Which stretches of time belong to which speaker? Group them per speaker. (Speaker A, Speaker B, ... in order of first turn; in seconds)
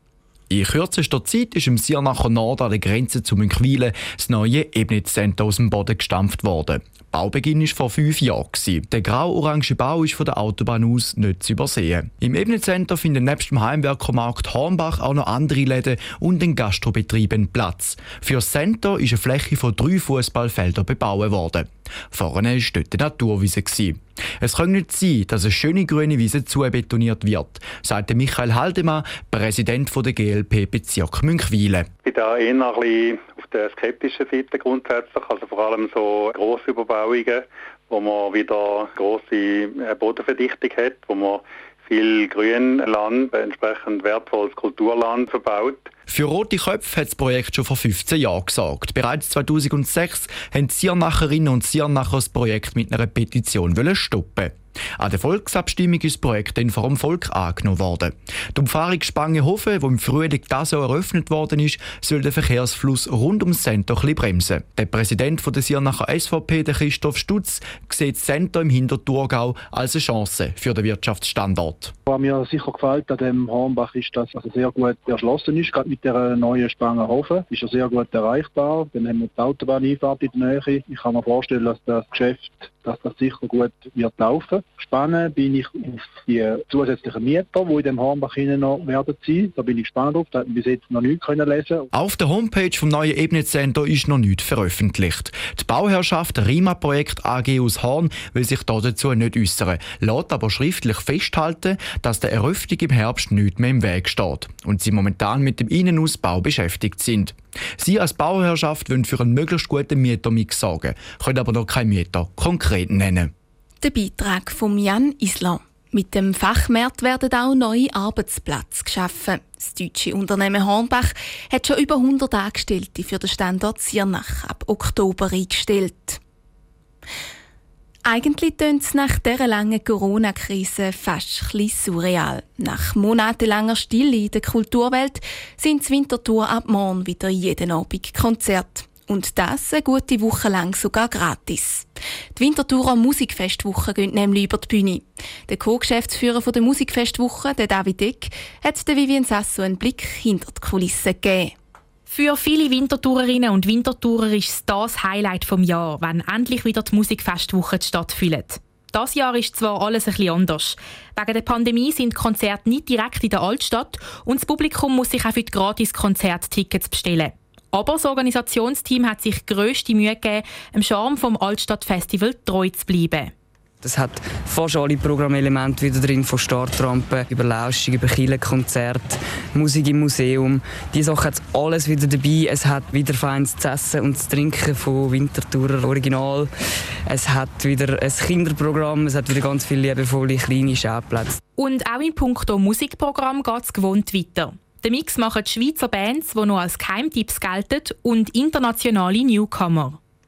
Speaker A: 0.5-31.9, 46.1-71.9, 91.9-113.3
Speaker B: 32.0-45.9
Speaker C: 72.1-91.9
Speaker D: 113.8-126.2, 128.1-151.5
Speaker E: 152.1-173.3, 191.6-200.0
Speaker F: 173.8-186.5, 187.1-191.4